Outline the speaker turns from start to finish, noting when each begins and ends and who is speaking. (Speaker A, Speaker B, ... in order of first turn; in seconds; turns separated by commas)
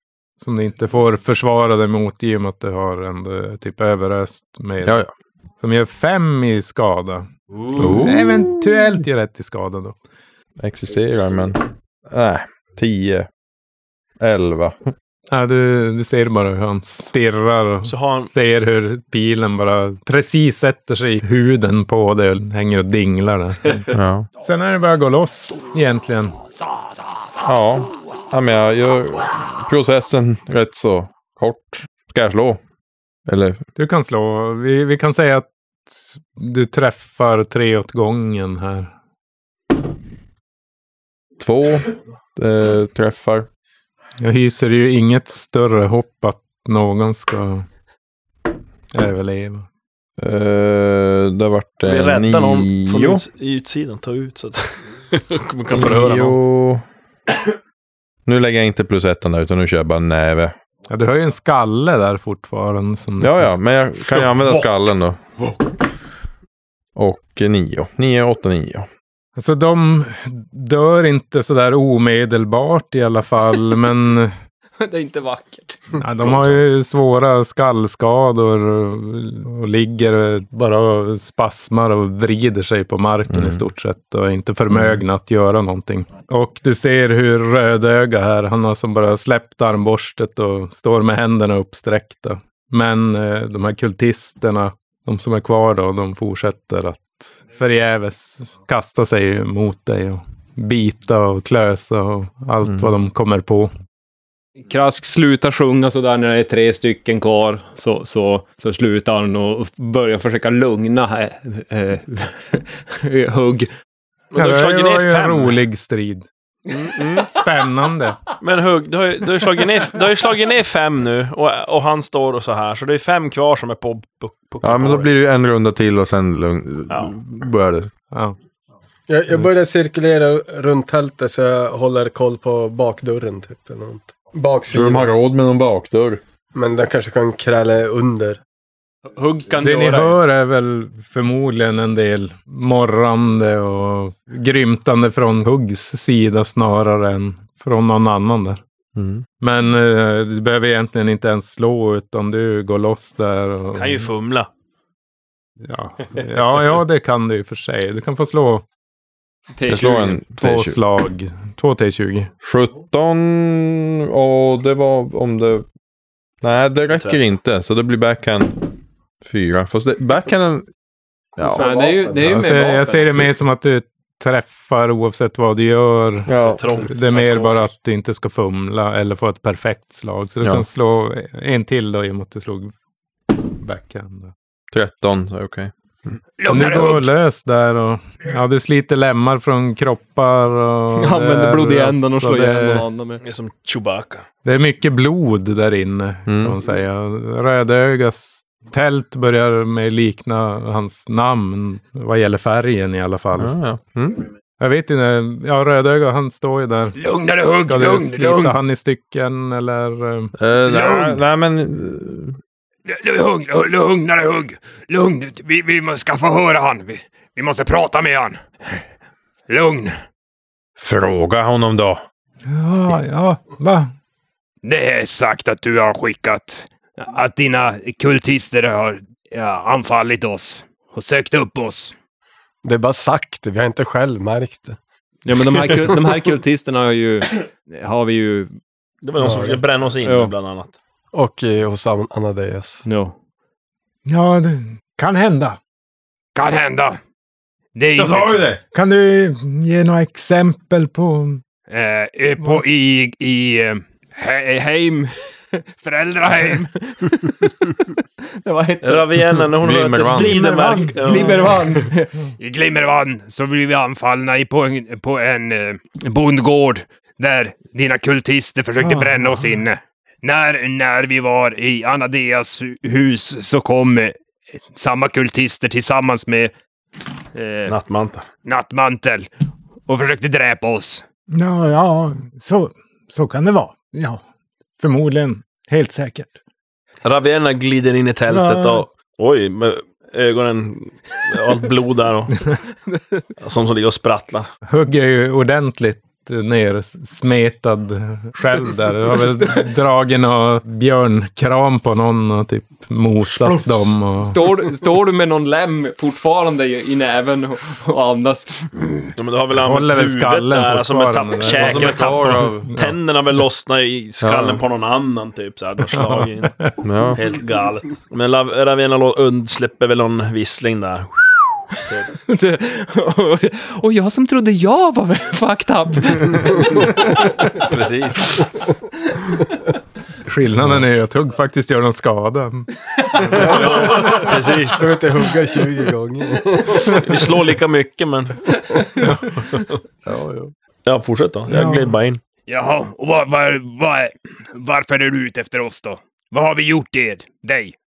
Speaker A: 0.4-5.0, Speaker B: 4.8-5.1, Speaker A: 5.6-10.0, Speaker B: 7.7-8.6, Speaker B: 10.6-13.3, Speaker B: 14.2-14.9, Speaker A: 15.3-26.4, Speaker C: 17.9-18.3, Speaker B: 23.9-24.3, Speaker B: 27.4-32.6, Speaker B: 33.3-33.6, Speaker A: 33.8-38.9, Speaker B: 41.4-43.5, Speaker A: 44.2-47.7, Speaker A: 48.9-49.7, Speaker B: 50.2-53.2, Speaker C: 51.8-56.4, Speaker B: 55.7-56.8, Speaker B: 58.3-60.5, Speaker A: 60.9-63.5, Speaker B: 63.2-65.2, Speaker B: 67.0-68.9, Speaker A: 69.4-74.3, Speaker D: 74.8-76.6, Speaker A: 76.0-103.7, Speaker B: 83.3-83.7, Speaker B: 84.7-85.0, Speaker B: 102.6-102.9, Speaker D: 104.6-113.7, Speaker C: 114.3-115.6, Speaker A: 114.3-116.3, Speaker C: 116.7-117.3, Speaker A: 117.3-118.2, Speaker C: 118.4-125.1, Speaker B: 124.6-127.9, Speaker E: 129.1-135.1, Speaker B: 134.7-136.2, Speaker E: 136.5-138.4, Speaker D: 139.1-140.2, Speaker A: 139.6-148.6, Speaker B: 149.0-149.2, Speaker A: 149.4-154.1, Speaker C: 153.7-154.5, Speaker A: 155.6-158.7, Speaker D: 159.6-160.2, Speaker B: 159.7-160.8, Speaker A: 160.3-162.3, Speaker B: 162.4-165.7, Speaker B: 166.4-170.7, Speaker C: 166.9-167.3, Speaker B: 171.4-171.7, Speaker E: 171.5-172.3, Speaker D: 171.5-173.2, Speaker A: 172.2-182.7, Speaker B: 176.3-176.6, Speaker C: 176.4-177.7, Speaker A: 183.3-184.3, Speaker B: 184.7-186.2, Speaker F: 186.4-187.1, Speaker A: 186.5-192.8, Speaker D: 190.9-193.2, Speaker C: 193.2-194.2, Speaker A: 194.4-203.6, Speaker B: 196.3-196.6, Speaker B: 203.4-204.2, Speaker A: 204.6-207.0, Speaker F: 207.0-208.6, Speaker A: 207.7-210.3, Speaker B: 210.4-212.4, Speaker F: 210.6-211.2, Speaker F: 212.9-218.4, Speaker F: 219.5-219.9, Speaker B: 220.8-222.0, Speaker A: 222.5-223.9, Speaker F: 224.6-231.9, Speaker E: 232.6-234.8, Speaker D: 235.2-238.5, Speaker C: 239.0-240.7, Speaker E: 239.2-239.7, Speaker D: 240.0-240.3, Speaker E: 241.1-242.8, Speaker D: 242.9-243.2, Speaker A: 244.1-245.6, Speaker F: 246.3-247.0, Speaker F: 247.8-248.5, Speaker B: 247.9-248.6, Speaker A: 248.7-251.4, Speaker F: 251.7-255.1, Speaker A: 252.4-252.7, Speaker F: 255.7-257.3, Speaker D: 258.2-259.4, Speaker C: 258.8-261.9, Speaker B: 259.6-260.4, Speaker A: 260.2-261.2, Speaker D: 261.0-262.1, Speaker F: 262.4-274.2, Speaker A: 268.8-269.6, Speaker F: 274.7-276.5, Speaker F: 277.3-277.8, Speaker C: 277.7-278.3, Speaker F: 278.4-279.3, Speaker F: 279.9-281.1, Speaker A: 281.3-284.2, Speaker A: 284.8-286.4, Speaker C: 287.0-292.4, Speaker A: 288.3-288.9, Speaker C: 293.4-294.5, Speaker A: 294.7-304.4, Speaker D: 304.1-308.7, Speaker C: 309.2-316.6, Speaker A: 309.6-312.9, Speaker B: 311.5-312.7, Speaker B: 314.2-314.6, Speaker A: 316.0-316.7, Speaker B: 316.8-317.2, Speaker C: 317.1-322.1, Speaker D: 322.3-327.3, Speaker C: 327.6-328.5, Speaker A: 330.2-332.7, Speaker C: 333.3-334.9, Speaker E: 333.4-337.0, Speaker C: 336.9-338.9, Speaker A: 339.0-339.4, Speaker B: 340.1-340.5, Speaker C: 340.9-342.2, Speaker A: 341.5-341.9, Speaker F: 342.5-347.8